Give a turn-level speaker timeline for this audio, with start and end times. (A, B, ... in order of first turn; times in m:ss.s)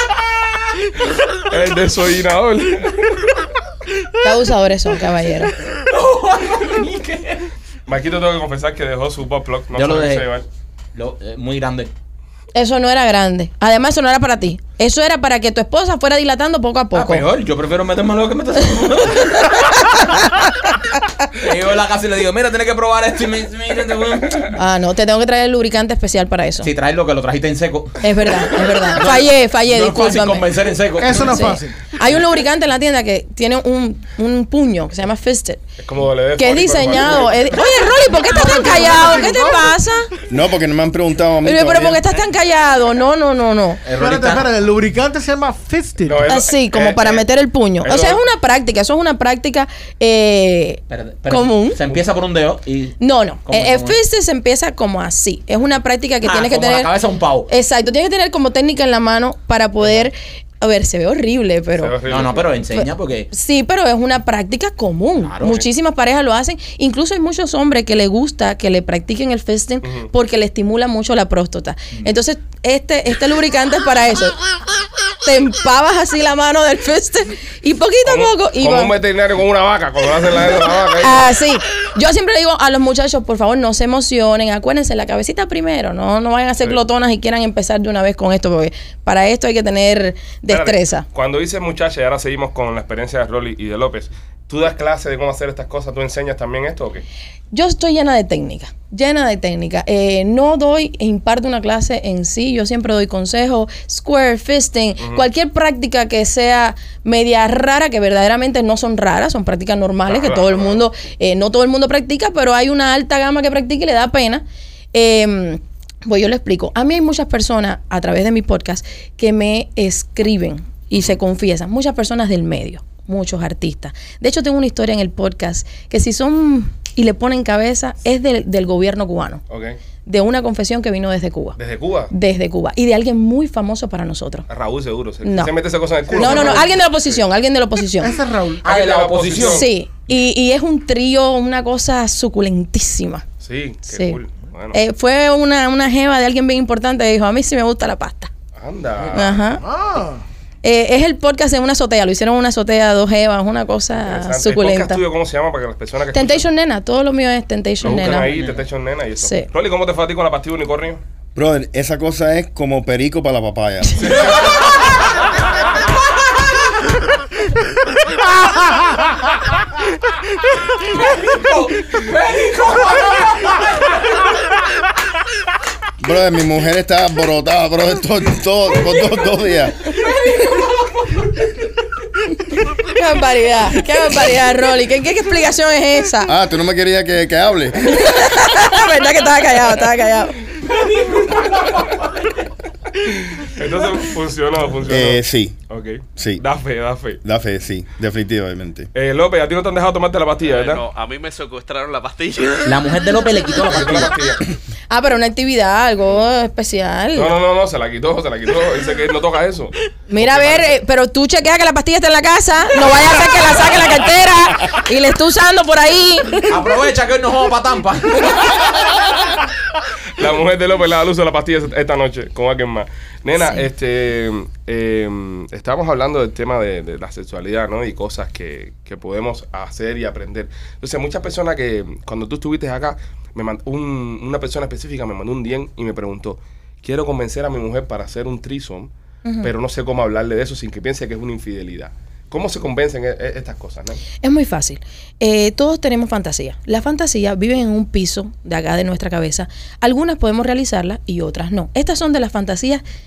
0:01.5-0:03.0 A
0:04.2-0:05.5 B
0:05.8-0:07.5 C
0:07.9-0:10.4 A
0:09.7-0:10.3 C
0:10.9-0:11.9 C
0:12.5-0:17.2 B
0:16.9-0:19.9 C
0:21.4-0:24.5 C
0:24.5-0:26.7 B
0:26.6-0:28.0 C
0:28.0-0:30.4 B
0:28.9-0:31.4 C
0:31.0-0:31.8 D
0:31.1-0:35.6 B
0:35.8-0:37.5 A
0:36.4-0:40.1 B
0:38.3-0:39.8 D
0:40.3-0:42.0 E
0:41.4-0:43.8 B
0:43.8-0:44.5 C
0:44.0-0:46.3 D
0:46.0-0:47.2 A
0:46.2-0:51.8 B
0:47.8-0:48.2 A
0:50.9-0:54.0 C
0:53.0-0:56.9 B
0:56.2-0:57.5 C
0:57.5-1:02.0 B
1:01.7-1:02.6 A
1:02.1-1:03.3 C
1:02.7-1:14.4 B
1:05.2-1:05.6 C
1:09.8-1:10.1 A
1:15.2-1:19.0 B
1:18.0-1:21.3 A
1:21.0-1:31.0 B
1:30.5-1:37.0 A
1:37.5-2:09.4 B
1:45.0-1:45.2 A
1:50.1-1:50.8 A
2:09.5-2:09.8 A
2:10.0-2:11.6 B
2:11.6-2:12.1 A
2:12.1-2:14.4 B
2:14.5-2:17.2 A
2:15.2-2:15.5 B
2:16.1-2:16.7 D
2:16.1-2:18.1 B
2:18.0-2:18.7 D
2:18.6-2:19.7 C
2:18.6-2:19.6 A
2:19.4-2:23.2 B
2:23.4-2:24.8 A
2:23.9-2:24.2 B
2:24.7-2:28.3 B
2:28.5-2:29.4 A
2:29.1-2:29.6 B
2:29.6-2:30.2 D
2:30.6-2:35.0 B
2:34.0-2:36.4 A
2:36.1-2:38.3 B
2:37.8-2:41.0 A
2:39.2-2:39.5 B
2:41.3-2:44.3 E
2:44.0-2:44.6 A
2:51.0-2:53.8 C
2:56.0-2:59.8 E
2:59.9-3:01.5 C
3:02.8-3:06.3 B
3:06.2-3:08.5 E
3:07.9-3:10.4 B
3:10.6-3:12.4 C
3:13.0-3:17.2 A
3:14.9-3:15.6 E
3:16.2-3:16.4 E
3:17.2-3:18.9 E
3:18.9-3:20.8 A
3:20.4-3:22.8 F
3:22.6-3:24.2 C
3:23.7-3:24.4 A
3:24.9-3:27.3 B
3:27.1-3:30.7 A
3:30.1-3:36.5 B
3:36.5-3:38.5 C
3:40.2-3:58.9 A
3:43.4-3:43.7 B
3:59.2-3:59.5 B
3:59.4-4:04.0 A
4:04.2-4:12.8 B